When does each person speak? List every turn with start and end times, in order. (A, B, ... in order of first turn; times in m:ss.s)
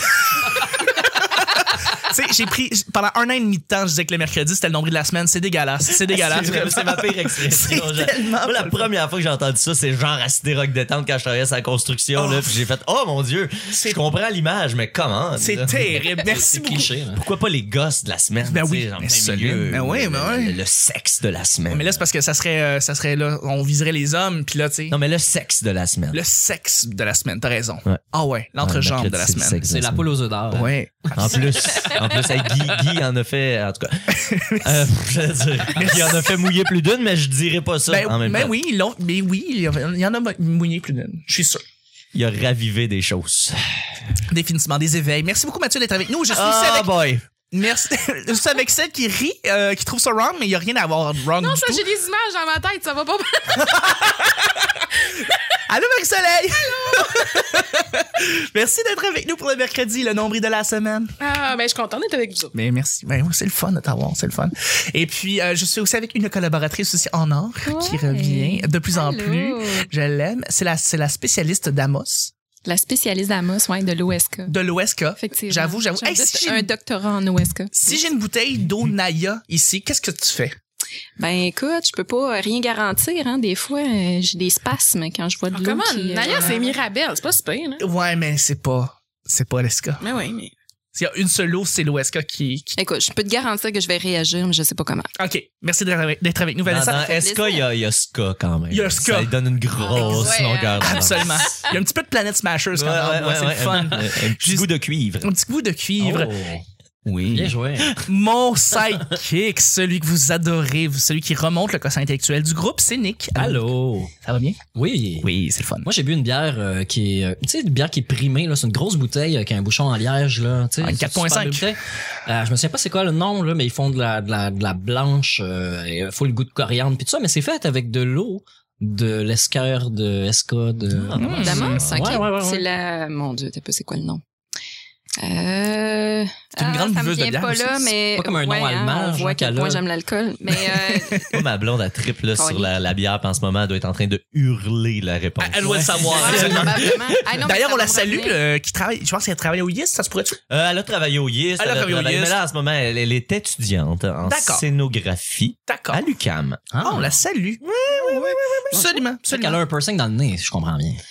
0:00.2-0:08.9 A
0:05.9-0:16.0 B
0:12.2-0:12.6 A
0:13.7-0:14.0 A
0:15.4-0:16.9 A
0:16.1-0:17.2 C
0:17.2-0:22.1 B
0:18.4-0:20.6 A
0:21.7-0:25.0 A
0:24.9-0:26.2 B
0:26.1-0:29.6 A
0:28.6-0:38.6 B
0:29.7-0:31.9 C
0:30.5-0:31.1 A
0:34.1-0:34.9 A
0:35.7-0:36.5 A
0:37.9-0:41.6 A
0:42.1-0:43.6 B
0:44.3-0:51.8 A
0:46.3-0:47.2 B
0:51.4-0:54.1 D
0:53.6-0:54.6 A
0:55.7-1:01.1 A
0:56.7-0:57.1 D
1:01.2-1:02.5 D
1:02.6-1:12.3 A
1:07.7-1:09.9 E
1:12.6-1:14.5 E
1:14.5-1:16.7 A
1:15.2-1:18.0 E
1:17.7-1:20.6 A
1:21.2-1:26.8 E
1:25.5-1:27.8 D
1:27.8-1:30.0 A
1:30.0-1:30.5 D
1:30.9-1:32.8 A
1:32.8-1:35.1 E
1:35.2-1:37.2 A
1:36.6-1:41.6 B
1:37.2-1:37.6 E
1:38.7-1:39.4 A
1:39.9-1:41.7 E
1:40.0-1:44.7 A
1:42.7-1:45.3 B
1:45.2-1:46.3 A
1:46.0-1:46.6 C
1:47.1-1:53.6 A
1:47.3-1:48.0 C
1:53.4-1:54.1 C
1:54.2-1:54.6 A
1:54.7-1:55.3 C
1:55.2-1:55.9 A
1:55.8-2:12.7 C
2:00.8-2:01.7 A
2:10.9-2:11.9 B
2:11.2-2:11.8 A
2:11.4-2:14.2 E
2:15.2-2:21.3 E
2:16.6-2:17.9 A
2:18.2-2:19.8 C
2:20.6-2:21.4 A
2:21.3-2:27.5 B
2:22.4-2:22.7 E
2:25.4-2:30.4 A
2:26.0-2:28.4 E
2:30.5-2:38.8 B
2:31.6-2:32.4 A
2:34.2-2:34.6 A
2:35.7-2:36.0 A
2:36.7-2:39.6 A
2:39.3-2:41.0 C